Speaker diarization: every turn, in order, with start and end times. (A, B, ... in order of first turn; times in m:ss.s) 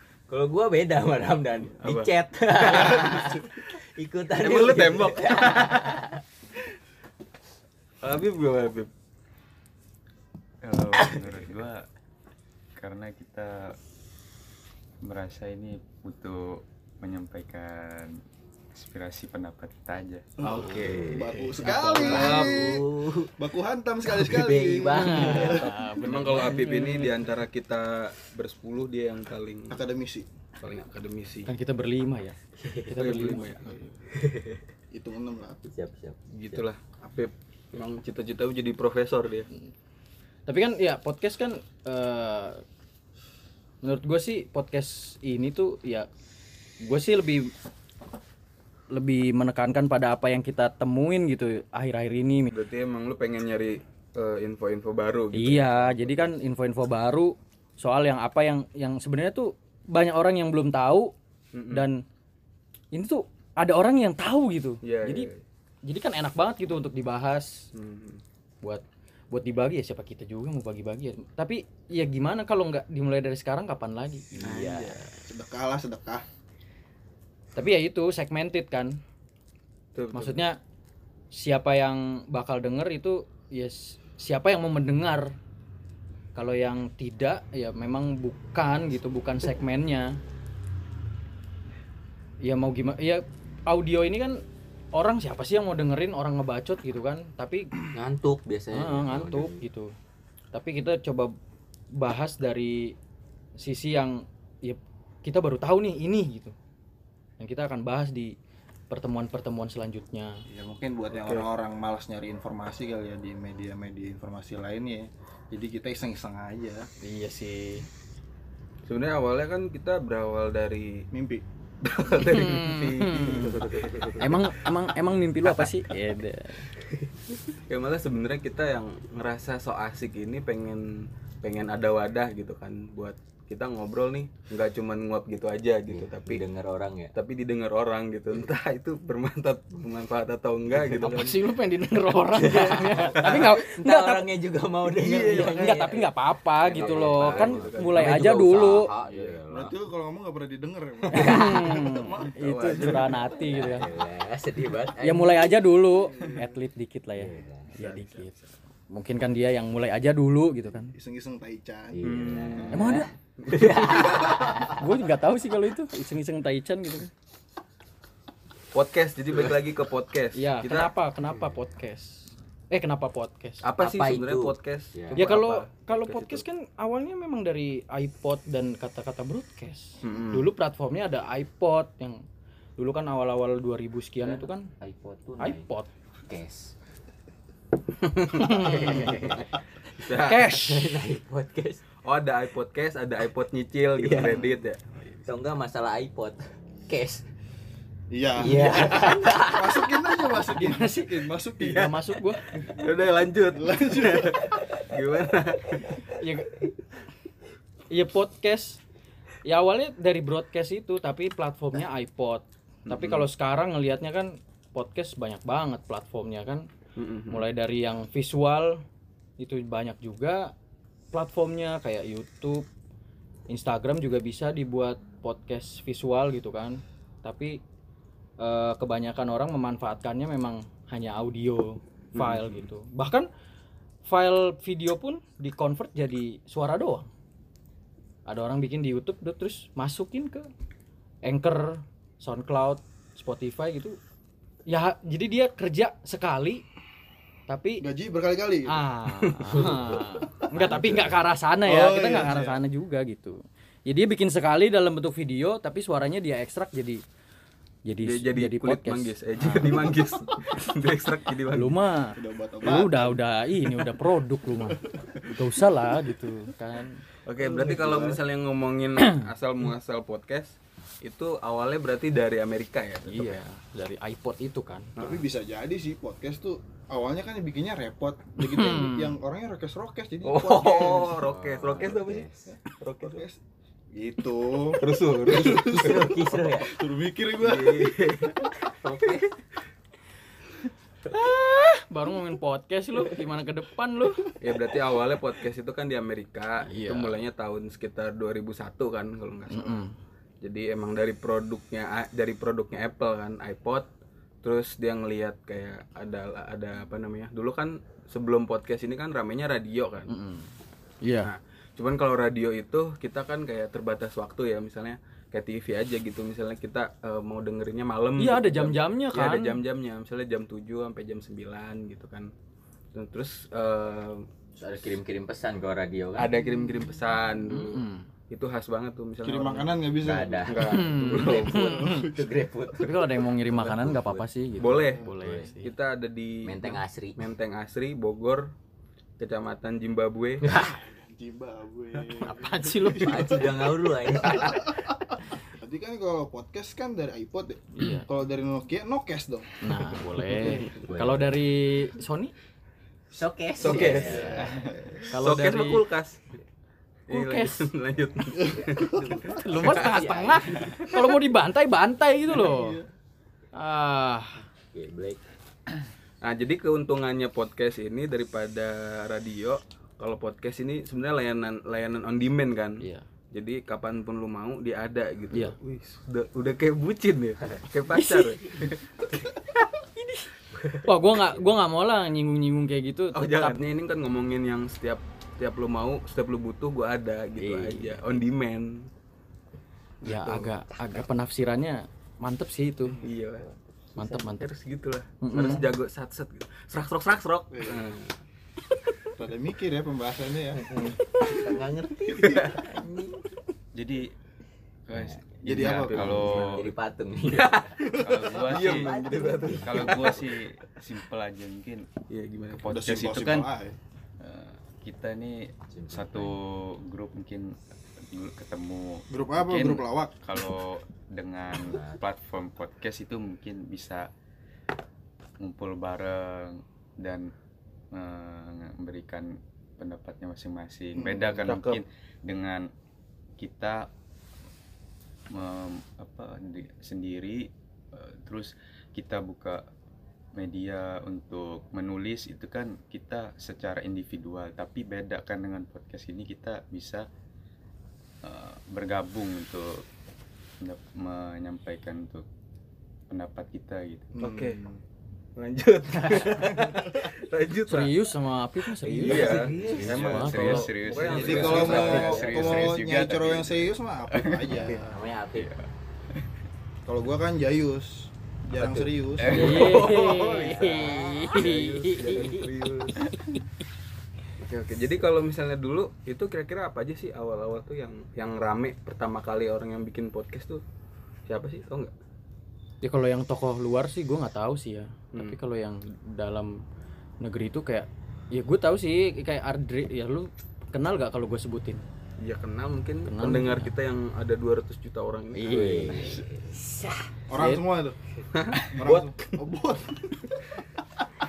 0:00.3-0:06.2 A
0:01.8-0:03.4 B
0:04.4-0:06.0 B
0:08.0-0:08.9 B
0:10.6-0:11.8 C
0:11.0-0:11.2 A
0:12.8-0:13.8 C
0:15.0-0:18.2 C
0:18.8-0:20.3 C
0:20.4-0:22.8 D
0:20.4-0:22.5 E
0:20.5-0:23.3 A
0:22.1-0:22.6 B
0:23.4-0:25.7 D
0:24.1-0:25.7 A
0:24.9-0:27.1 E
0:25.7-0:29.9 B
0:29.7-0:30.2 D
0:30.6-0:31.5 B
0:31.4-0:33.5 E
0:32.6-0:33.2 A
0:32.9-0:33.7 B
0:33.5-0:34.0 D
0:34.1-0:34.6 A
0:34.9-0:35.6 D
0:35.6-0:36.6 A
0:36.3-0:39.5 B
0:40.5-0:42.6 E
0:43.8-0:46.1 E
0:46.8-0:47.5 E
0:48.9-0:52.5 E
0:52.5-0:56.2 B
0:55.3-1:01.1 E
1:01.5-1:01.9 B
1:01.7-1:02.0 E
1:02.9-1:05.3 E
1:04.8-1:05.4 B
1:05.8-1:07.6 E
1:07.7-1:08.2 B
1:08.6-1:14.9 E
1:14.4-1:16.2 D
1:14.4-1:15.0 B
1:17.5-1:19.0 E
1:19.9-1:20.4 B
1:20.1-1:20.6 E
1:21.3-1:25.3 E
1:26.3-1:30.2 E
1:32.4-1:34.4 E
1:34.9-1:37.8 E
1:37.9-1:39.6 A
1:38.7-1:39.9 E
1:40.5-1:41.3 E
1:41.9-1:42.9 E
1:43.6-1:46.5 E
1:47.4-1:48.3 E
1:48.9-1:50.4 E
1:50.5-1:56.9 D
1:51.2-1:51.5 B
1:57.0-1:57.8 E
1:58.8-2:01.1 B
2:01.1-2:01.4 D
2:01.8-2:04.6 B
2:02.2-2:03.7 E
2:04.2-2:06.7 E
2:07.4-2:16.4 B
2:15.9-2:17.1 A
2:17.1-2:21.4 B
2:20.9-2:24.2 E
2:22.3-2:26.1 A
2:23.1-2:23.6 B
2:25.0-2:25.8 B
2:25.1-2:25.6 D
2:25.4-2:28.9 E
2:26.6-2:28.5 B
2:26.7-2:29.7 A
2:29.5-2:32.4 D
2:31.1-2:33.9 E
2:31.1-2:31.8 A
2:32.2-2:33.8 B
2:33.4-2:35.6 A
2:35.0-2:38.3 E
2:36.2-2:36.4 D
2:37.2-2:37.7 A
2:37.8-2:38.4 D
2:38.9-2:40.9 E
2:40.9-2:42.8 D
2:41.9-2:44.8 A
2:42.0-2:44.5 B
2:42.7-2:47.1 E
2:48.7-2:50.9 B
2:50.3-2:53.6 E
2:53.6-2:56.4 B
2:53.8-2:55.3 A
2:55.1-3:02.2 E
3:00.0-3:00.5 B
3:02.8-3:04.7 E
3:04.2-3:05.7 A
3:05.4-3:05.9 E
3:06.3-3:06.7 A
3:08.0-3:09.0 B
3:08.3-3:09.3 E
3:08.4-3:11.8 A
3:10.0-3:10.5 B
3:10.1-3:11.0 E
3:12.0-3:14.9 B
3:14.0-3:14.5 A
3:14.2-3:14.5 D
3:15.2-3:17.2 A
3:18.1-3:21.9 D
3:18.4-3:20.0 A
3:20.5-3:22.4 E
3:21.6-3:26.0 B
3:23.5-3:24.5 D
3:25.7-3:26.0 A
3:26.1-3:26.6 E
3:27.9-3:28.8 E
3:29.4-3:36.7 E
3:32.9-3:33.3 B
3:37.0-3:37.4 B
3:37.3-3:38.8 E
3:39.4-3:40.5 E
3:41.1-3:42.6 E
3:43.5-3:47.6 E
3:48.4-3:53.3 E
3:52.1-3:52.7 B
3:54.0-3:57.1 E
3:58.2-4:00.5 E
4:01.2-4:04.0 E
4:04.7-4:06.6 E
4:07.5-4:07.8 E
4:07.8-4:08.8 D
4:08.7-4:17.0 E
4:09.1-4:09.9 B
4:09.6-4:10.0 A
4:10.6-4:11.1 A
4:11.6-4:12.6 D
4:17.8-4:19.9 E
4:18.0-4:21.7 B
4:21.5-4:27.0 E
4:22.2-4:23.2 D
4:24.7-4:25.4 D
4:27.2-4:33.4 B
4:27.4-4:28.2 D
4:29.0-4:29.2 E
4:33.0-4:34.9 E
4:35.0-4:35.2 B
4:35.0-4:41.3 D
4:38.4-4:39.1 E
4:40.2-4:43.2 B
4:41.0-4:42.5 A
4:43.0-4:43.4 D
4:43.9-4:48.5 D
4:44.8-4:46.3 B
4:45.3-4:46.7 A
4:47.4-4:49.3 B
4:51.1-4:54.3 E
4:54.4-4:59.8 B
4:56.6-4:57.2 E
4:59.5-4:59.9 E
5:00.4-5:03.9 B
5:04.4-5:10.1 B
5:10.1-5:10.5 E
5:11.0-5:11.3 E
5:11.2-5:22.3 B
5:18.2-5:19.6 E
5:22.9-5:24.2 B
5:24.6-5:26.4 A
5:26.1-5:29.9 B
5:27.5-5:28.1 E
5:29.2-5:32.3 D
5:30.0-5:34.2 A
5:30.4-5:31.9 B
5:30.7-5:32.0 E
5:32.8-5:35.7 E
5:34.6-5:38.5 B
5:35.2-5:35.6 A
5:36.4-5:37.3 A
5:39.2-5:40.4 B
5:40.4-5:40.8 A
5:40.5-5:49.6 D
5:42.2-5:43.5 E
5:43.0-5:44.6 A
5:44.3-5:44.6 E
5:47.7-5:48.1 E
5:49.6-5:52.3 E
5:50.0-5:51.4 A
5:53.1-5:54.5 A
5:53.6-5:56.2 B
5:53.9-5:54.5 E
5:53.9-5:55.1 D
5:55.1-5:55.8 E
5:57.1-6:00.0 B
5:57.1-5:57.7 E
5:58.5-5:59.3 D
5:59.0-6:00.9 A
5:59.4-6:02.8 E
6:00.6-6:01.1 B
6:02.3-6:02.8 D
6:03.5-6:04.4 E
6:04.7-6:05.2 A
6:06.2-6:19.4 B
6:12.8-6:13.0 E
6:17.9-6:18.2 E
6:20.0-6:20.3 E
6:20.5-6:20.9 B
6:20.8-6:23.6 E
6:23.1-6:28.9 B
6:27.4-6:28.0 E
6:30.0-6:30.5 B
6:30.0-6:33.0 E
6:33.0-6:33.5 B
6:34.0-6:34.5 E
6:34.0-6:38.2 B
6:35.2-6:35.6 E
6:37.5-6:37.9 D
6:39.2-6:40.6 D
6:40.6-6:41.2 B
6:41.1-6:43.2 A
6:42.1-6:42.6 D
6:42.2-6:42.6 B
6:43.7-6:44.1 C
6:44.9-6:50.2 A
6:45.4-6:46.7 C
6:45.4-6:46.6 D
6:47.3-6:47.8 B
6:47.8-6:48.4 D
6:47.9-6:48.9 C
6:48.3-6:50.3 B
6:49.6-6:51.8 C
6:52.1-6:53.4 B
6:52.5-6:53.5 C
6:52.7-6:53.8 D
6:54.2-7:04.1 C
6:55.7-6:56.3 A
6:59.1-7:00.1 D
7:01.6-7:02.0 A
7:05.4-7:07.3 C
7:07.9-7:12.7 C
7:11.0-7:11.4 D
7:11.4-7:11.8 B
7:13.4-7:13.9 C
7:15.3-7:19.6 C
7:20.4-7:27.0 C
7:28.2-7:29.8 C
7:30.6-7:32.2 C
7:33.1-7:34.1 C
7:34.1-7:34.8 D
7:34.2-7:34.6 B
7:35.4-7:38.0 B
7:36.0-7:36.4 E
7:37.7-7:40.7 E
7:38.8-7:42.7 B
7:38.9-7:42.7 A
7:39.7-7:46.2 C
7:41.1-7:44.9 D
7:44.5-7:45.5 A
7:46.8-7:49.7 D
7:48.5-7:51.4 A
7:49.2-7:49.7 C
7:49.3-7:52.4 E
7:49.3-7:53.0 B
7:52.0-7:52.4 A
7:54.4-8:00.6 B
8:01.3-8:01.9 B
8:02.8-8:06.6 E
8:05.1-8:05.4 B
8:07.2-8:11.8 E
8:12.2-8:16.2 B
8:13.0-8:13.7 E
8:15.3-8:16.2 E
8:15.4-8:16.9 A
8:17.3-8:18.0 D
8:17.4-8:17.6 E
8:18.3-8:19.4 B
8:18.7-8:20.4 D